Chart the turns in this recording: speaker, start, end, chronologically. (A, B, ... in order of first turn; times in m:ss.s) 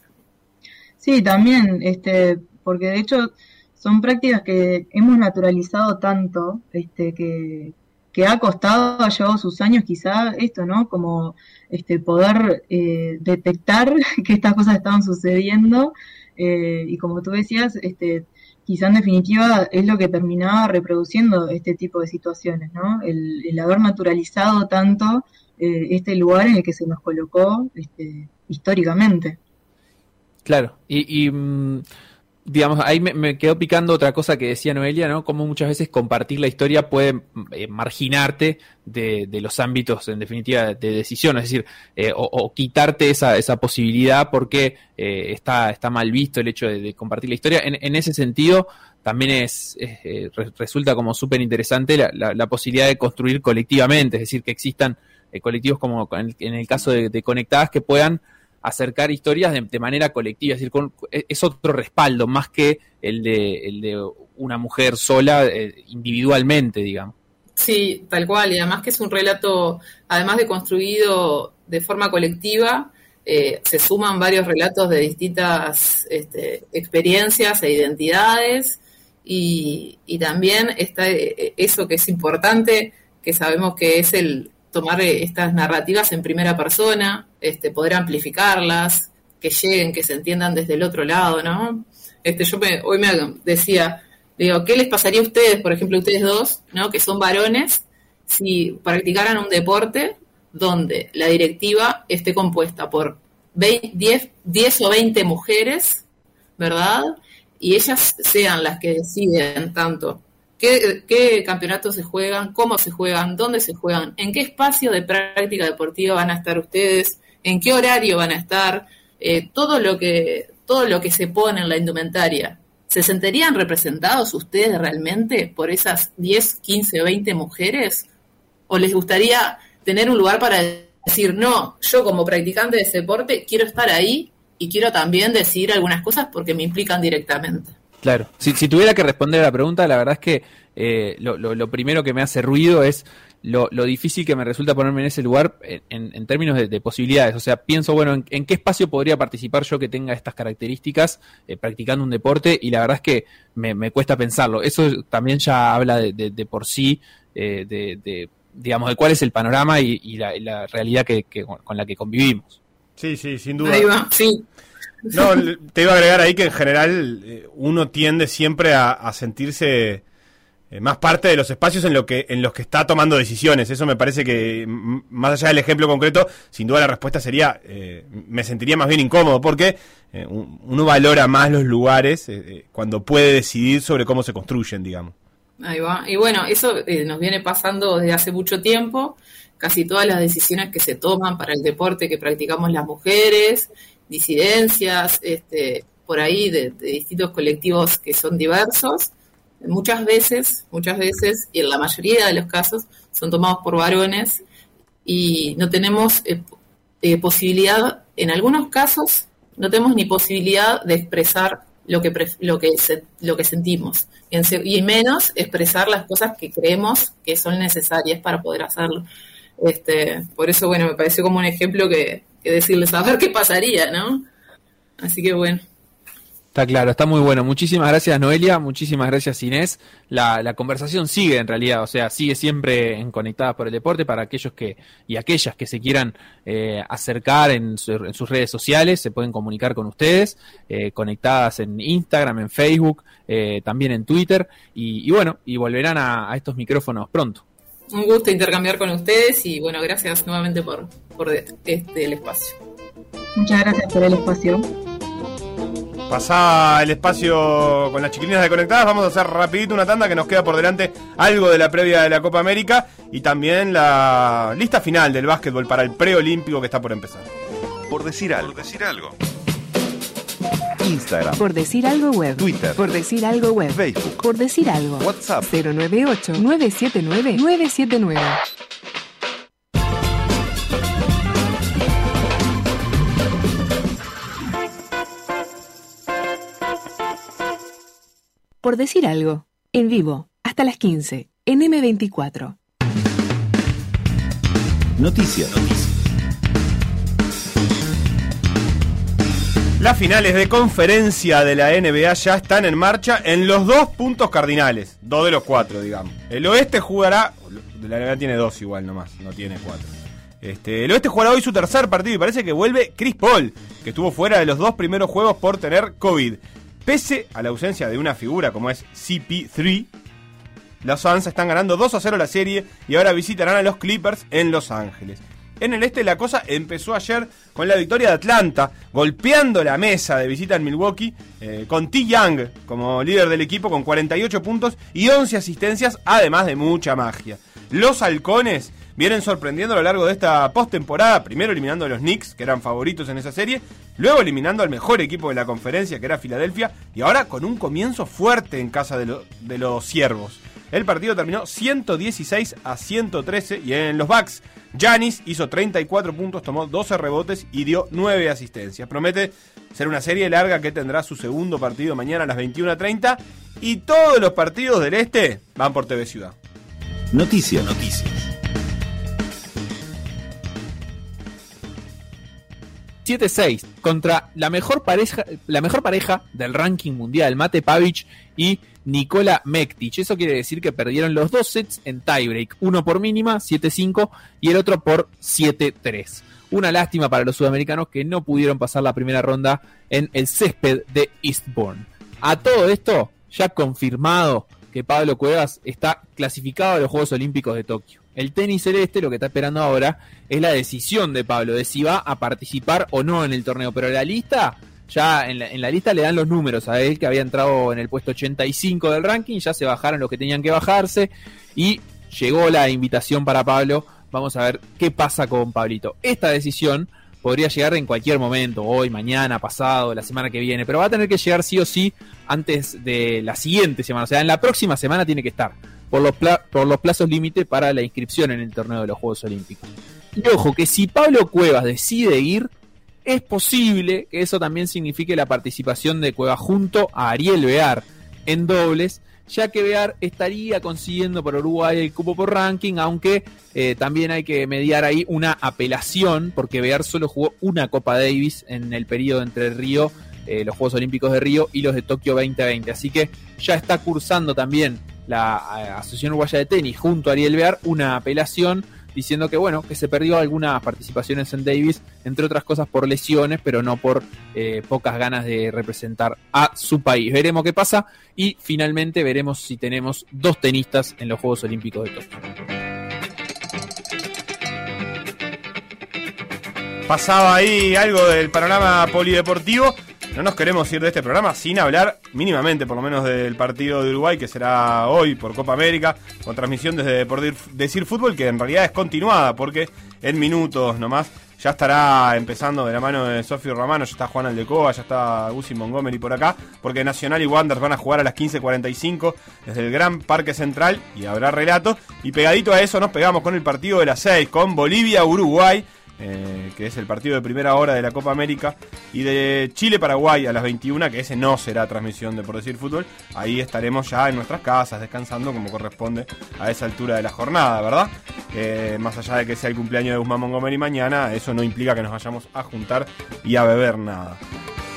0:01.0-0:29.4 A
0:30.4-0:31.8 B
0:32.4-1:07.1 B
1:07.6-1:46.0 C
1:46.6-2:08.1 C
2:08.7-2:17.7 C
2:18.0-2:42.6 B
2:43.0-2:43.9 D
2:43.6-2:44.4 C
2:45.1-2:50.0 D
2:50.7-3:05.1 D
3:05.6-3:24.4 C
3:25.0-3:26.4 C
3:27.0-3:39.0 C
3:39.6-3:44.3 C
3:45.0-3:45.6 C
3:46.6-4:07.4 B
4:07.9-4:12.6 C
4:13.4-4:14.7 A
4:16.1-4:27.3 D
4:27.9-4:29.2 E
4:30.8-4:31.4 E
4:31.4-4:38.4 F
4:32.4-4:32.9 E
4:33.7-4:34.2 E
4:35.0-4:35.5 E
4:48.6-4:52.6 F
4:55.0-4:55.9 E
4:59.8-5:09.9 D
5:10.4-5:19.9 D
5:20.8-6:06.4 D
6:07.1-6:08.3 E
6:13.0-7:12.5 B
7:13.0-7:52.1 B
7:56.9-8:44.2 D